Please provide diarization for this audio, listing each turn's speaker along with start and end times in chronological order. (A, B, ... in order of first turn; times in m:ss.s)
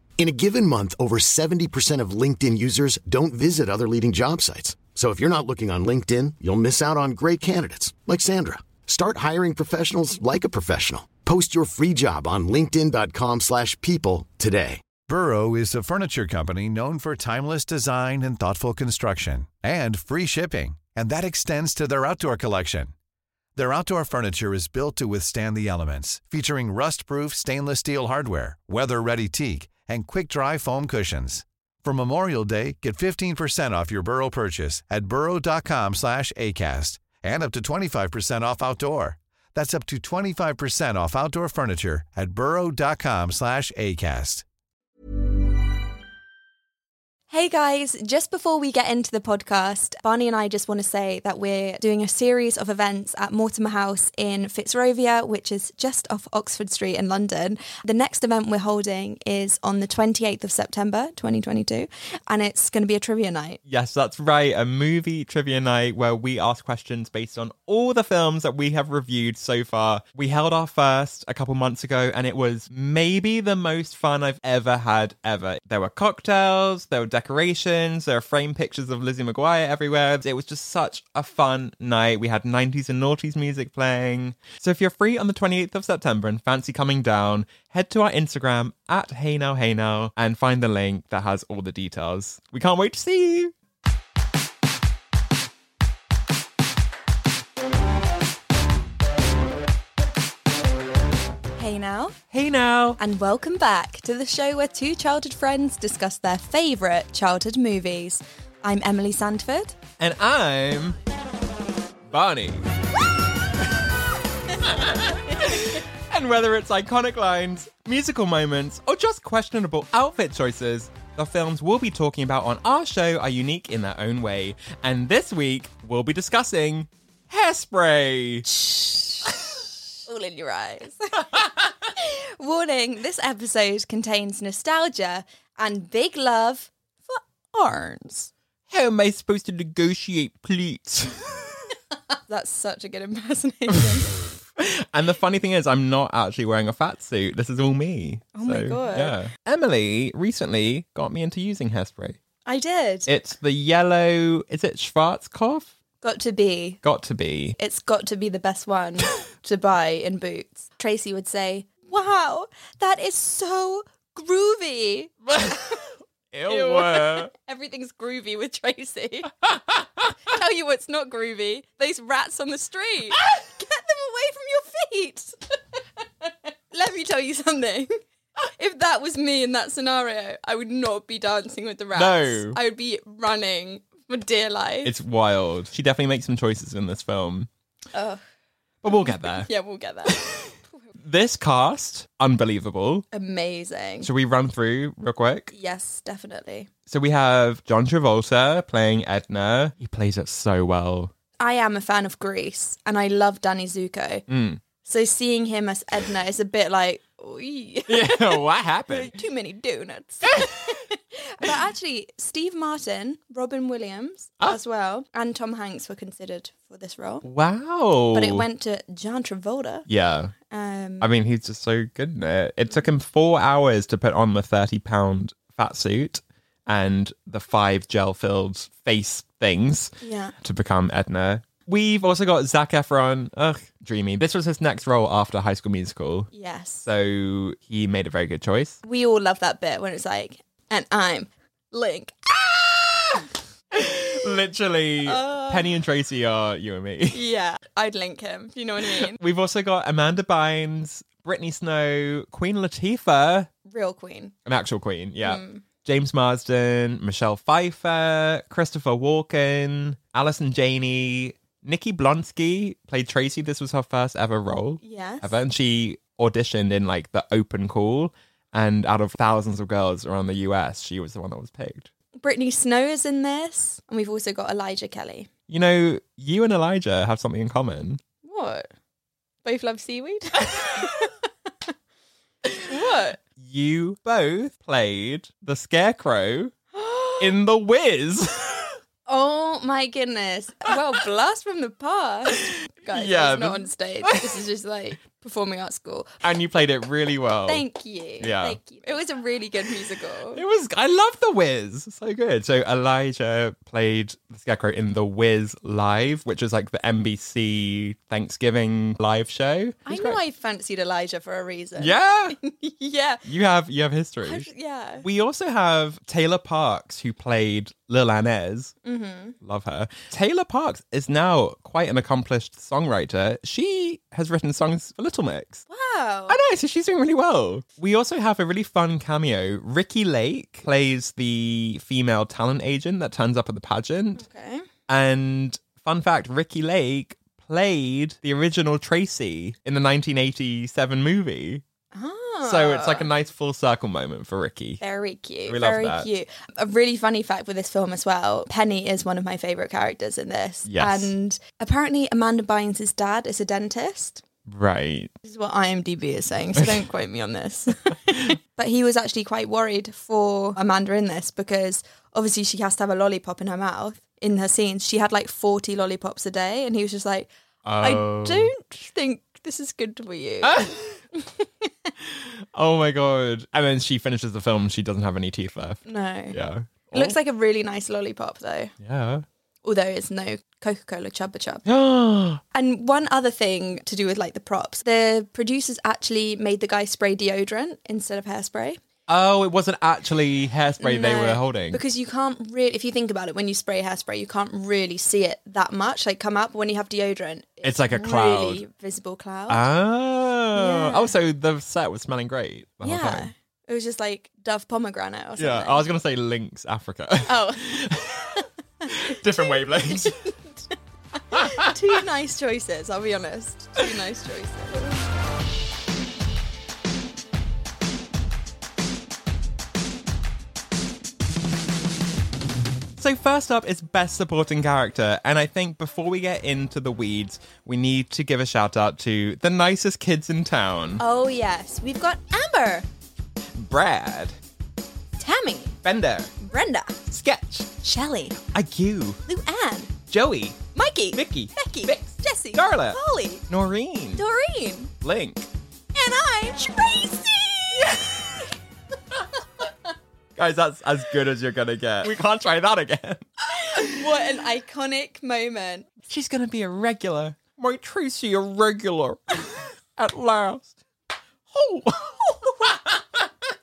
0:00.2-0:14.8 A
0:15.1-0:22.9 B
0:23.6-0:44.4 B
0:47.3-1:03.6 C
1:03.6-1:33.5 D
1:41.6-1:42.2 C
1:42.3-1:43.0 D
1:43.0-1:49.8 C
1:50.0-1:51.0 D
1:52.1-1:52.6 D
1:54.6-2:08.5 D
1:55.3-1:55.6 C
2:08.5-2:09.5 C
2:10.0-2:11.3 C
2:11.9-2:18.3 C
2:18.7-2:21.6 D
2:22.3-2:24.2 C
2:24.6-2:32.2 D
2:28.3-2:29.2 C
2:32.4-2:33.1 C
2:33.0-2:35.7 D
2:36.0-2:36.8 C
2:36.8-2:37.6 D
2:37.6-2:45.8 C
2:45.3-2:47.3 D
2:46.5-2:49.3 C
2:49.5-2:49.8 D
2:50.3-2:55.6 C
2:56.2-2:57.9 C
2:58.6-3:04.9 C
3:01.9-3:02.6 D
3:04.8-3:07.5 D
3:07.9-3:08.2 C
3:08.8-3:09.5 D
3:09.2-3:10.2 C
3:10.0-3:13.1 D
3:13.1-3:14.1 C
3:14.0-3:15.5 D
3:15.5-3:16.7 C
3:16.9-3:21.1 D
3:21.4-3:24.2 C
3:24.3-3:24.6 D
3:24.8-3:37.2 C
3:27.9-3:29.2 D
3:30.3-3:30.8 D
3:37.2-3:38.4 D
3:38.1-3:39.8 C
3:39.9-3:40.3 D
3:40.5-3:41.1 C
3:41.0-3:56.3 D
3:50.0-3:50.3 C
3:56.3-3:56.8 C
3:56.8-3:58.8 D
3:58.8-4:03.3 C
4:03.7-4:07.2 D
4:03.8-4:04.3 C
4:05.0-4:05.7 C
4:07.1-4:09.2 C
4:08.8-4:13.5 D
4:13.7-4:14.3 C
4:14.4-4:31.9 D
4:15.2-4:15.6 C
4:24.8-4:25.3 C
4:32.2-4:35.3 C
4:35.5-4:38.0 D
4:38.2-4:38.7 C
4:39.4-4:41.2 C
4:42.6-4:43.2 C
4:43.4-4:46.5 D
4:46.7-4:47.4 C
4:47.2-4:48.7 D
4:49.1-4:56.1 C
4:52.3-4:54.3 D
4:56.2-4:57.6 D
4:57.4-5:00.4 C
4:58.2-4:58.6 D
5:00.3-5:10.2 D
5:09.9-5:13.2 C
5:11.8-5:12.4 D
5:13.2-5:14.5 D
5:14.2-5:15.0 C
5:15.0-5:18.7 D
5:18.8-5:19.4 C
5:19.4-5:25.6 D
5:25.7-5:26.4 C
5:26.3-5:34.2 D
5:34.2-5:34.6 C
5:34.9-5:41.6 D
5:41.9-5:43.1 C
5:42.4-5:44.8 D
5:44.8-5:54.2 C
5:45.4-5:46.1 D
5:50.7-5:51.1 D
5:54.5-5:55.1 D
5:55.2-6:07.3 C
5:56.6-5:56.8 D
6:07.6-6:08.5 D
6:07.8-6:10.6 C
6:10.4-6:11.0 D
6:11.2-6:11.7 C
6:12.0-6:17.2 D
6:15.9-6:16.4 C
6:16.9-6:18.7 C
6:18.8-6:19.2 D
6:19.6-6:21.6 C
6:21.6-6:22.4 D
6:22.5-6:28.8 C
6:29.1-6:31.8 D
6:30.8-6:39.6 C
6:37.6-6:38.6 D
6:39.5-6:43.3 D
6:40.5-6:41.1 C
6:42.8-6:45.8 C
6:45.4-6:50.3 D
6:47.2-6:47.8 C
6:48.8-6:50.3 C
6:51.2-6:54.9 C
6:51.3-6:51.7 D
7:03.0-7:11.0 D
7:11.0-7:12.8 C
7:13.5-7:14.4 D
7:15.2-7:15.8 C
7:15.8-7:16.3 D
7:16.4-7:17.0 C
7:17.1-7:17.7 D
7:17.8-7:18.4 C
7:18.5-7:19.2 D
7:19.3-7:19.9 C
7:20.1-7:20.6 D
7:20.7-7:23.4 C
7:21.1-7:24.2 D
7:24.2-7:24.9 C
7:25.0-7:25.5 D
7:25.9-7:27.9 C
7:30.4-7:34.0 D
7:33.5-7:35.9 C
7:36.1-7:40.7 D
7:41.5-7:43.2 D
7:42.3-7:42.8 C